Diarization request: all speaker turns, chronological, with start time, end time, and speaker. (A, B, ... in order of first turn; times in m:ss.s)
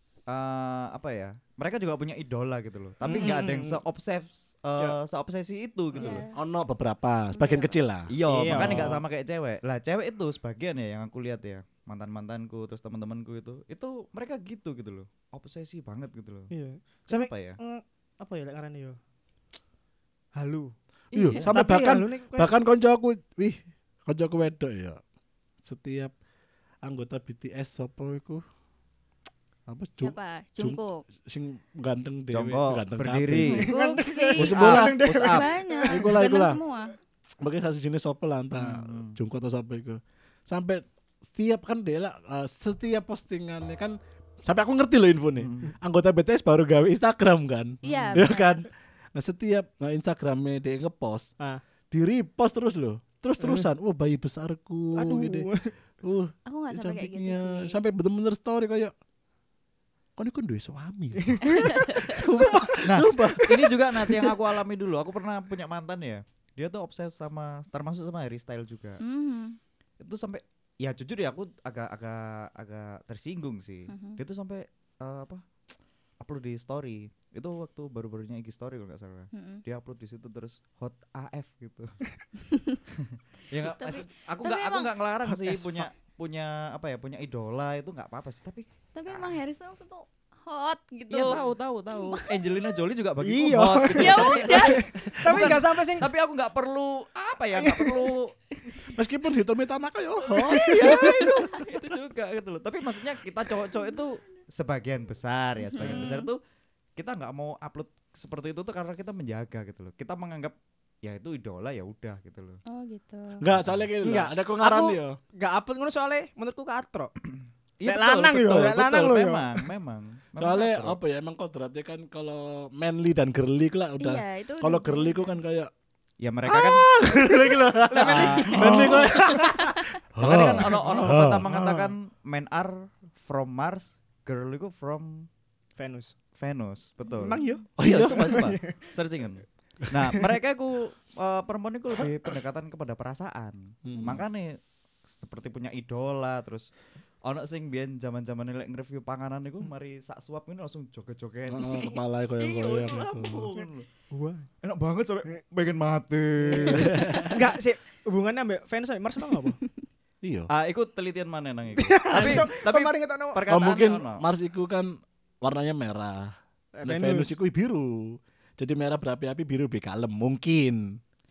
0:00.3-0:06.2 A
0:03.0-0:03.8 B
0:05.9-0:06.4 C
0:06.3-0:09.0 D
0:07.3-0:07.8 C
0:08.1-0:16.5 A
0:08.3-0:09.0 B
0:16.5-0:19.0 B
0:17.1-0:17.6 A
0:20.4-0:20.7 B
0:21.1-0:21.5 A
0:21.1-0:25.0 D
0:21.3-0:22.5 B
0:25.6-0:26.1 D
0:26.8-0:28.4 D
0:29.7-0:33.7 D
0:30.0-0:31.0 C
0:32.3-0:33.7 A
0:33.4-0:34.6 C
0:33.6-0:36.1 B
0:34.4-0:35.0 D
0:34.4-0:35.5 A
0:35.2-0:36.9 C
0:35.9-0:36.6 D
0:37.4-0:51.3 D
0:38.6-0:39.2 A
0:45.4-0:45.7 A
0:47.8-0:48.6 C
0:47.8-0:48.3 A
0:51.9-0:55.5 D
0:53.4-0:53.7 B
0:54.9-0:55.7 B
0:56.0-0:58.9 D
0:56.4-0:57.8 C
1:00.2-1:04.4 D
1:01.2-1:01.7 B
1:01.4-1:02.2 C
1:02.3-1:02.6 B
1:02.8-1:09.0 A
1:09.0-1:09.6 C
1:10.0-1:15.5 A
1:13.9-1:14.2 C
1:16.2-1:22.0 A
1:19.3-1:19.6 C
1:22.5-1:22.8 C
1:22.9-1:29.3 A
1:23.6-1:24.9 C
1:25.4-1:25.7 B
1:28.9-1:32.4 C
1:31.1-1:38.4 A
1:33.2-1:36.1 B
1:33.9-1:35.5 C
1:37.5-1:38.2 B
1:38.9-1:41.5 D
1:40.3-1:46.4 A
1:40.5-1:41.2 B
1:45.7-1:46.3 C
1:47.0-1:52.6 A
1:52.6-1:53.5 C
1:53.4-1:55.2 D
1:53.6-1:53.8 A
1:54.0-1:57.1 B
1:57.8-2:01.0 A
1:57.8-1:59.7 B
2:00.4-2:05.7 D
2:04.0-2:05.4 C
2:06.2-2:07.3 A
2:06.5-2:11.9 D
2:07.9-2:09.1 B
2:08.0-2:09.1 A
2:08.9-2:09.9 C
2:10.2-2:15.3 A
2:15.8-2:16.1 B
2:16.4-2:26.7 A
2:17.2-2:18.8 B
2:17.8-2:18.6 D
2:23.8-2:24.2 D
2:27.2-2:33.9 A
2:31.5-2:33.5 D
2:34.1-2:34.5 B
2:34.6-2:37.4 A
2:36.5-2:39.6 B
2:36.7-2:37.4 D
2:40.2-2:40.5 D
2:40.5-2:44.2 A
2:41.8-2:43.4 B
2:42.1-2:42.4 D
2:43.5-2:50.9 D
2:46.8-2:47.4 B